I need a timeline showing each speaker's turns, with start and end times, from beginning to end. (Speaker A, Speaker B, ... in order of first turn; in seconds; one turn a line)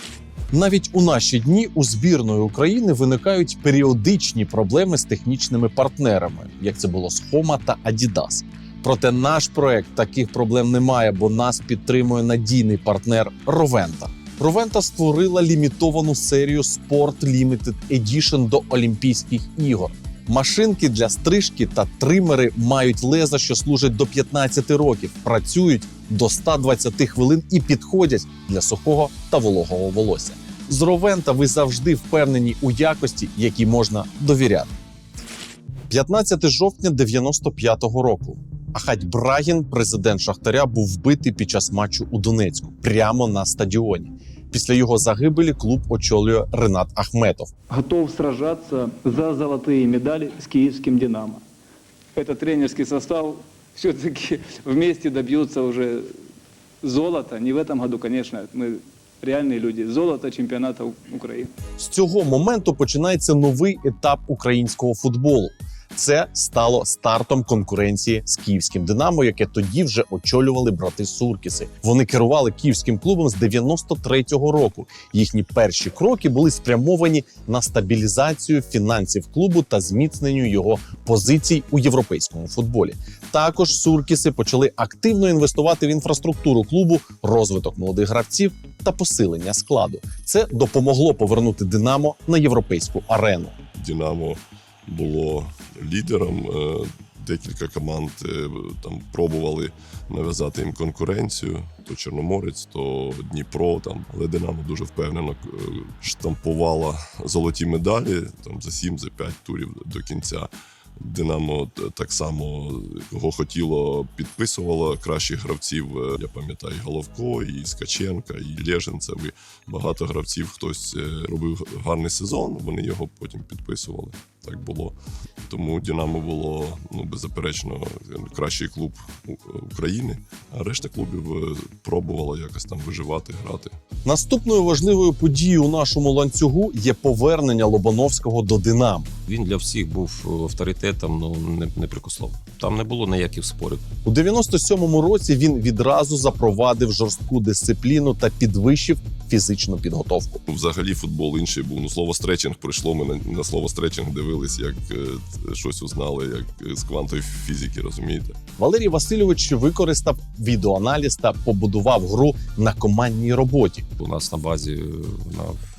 Speaker A: 0.5-34.7
Speaker A: 35.9-47.5
Speaker B: 47.7-51.4
Speaker B: 52.2-56.0
Speaker B: 56.8-61.5
Speaker A: 61.8-93.6
Speaker C: 93.8-125.0
Speaker C: 125.5-133.8
Speaker A: 134.1-139.1
Speaker D: 139.3-143.8
Speaker A: 144.1-150.4
Speaker C: 150.5-158.4
Speaker A: 158.6-163.8
Speaker D: 164.0-165.6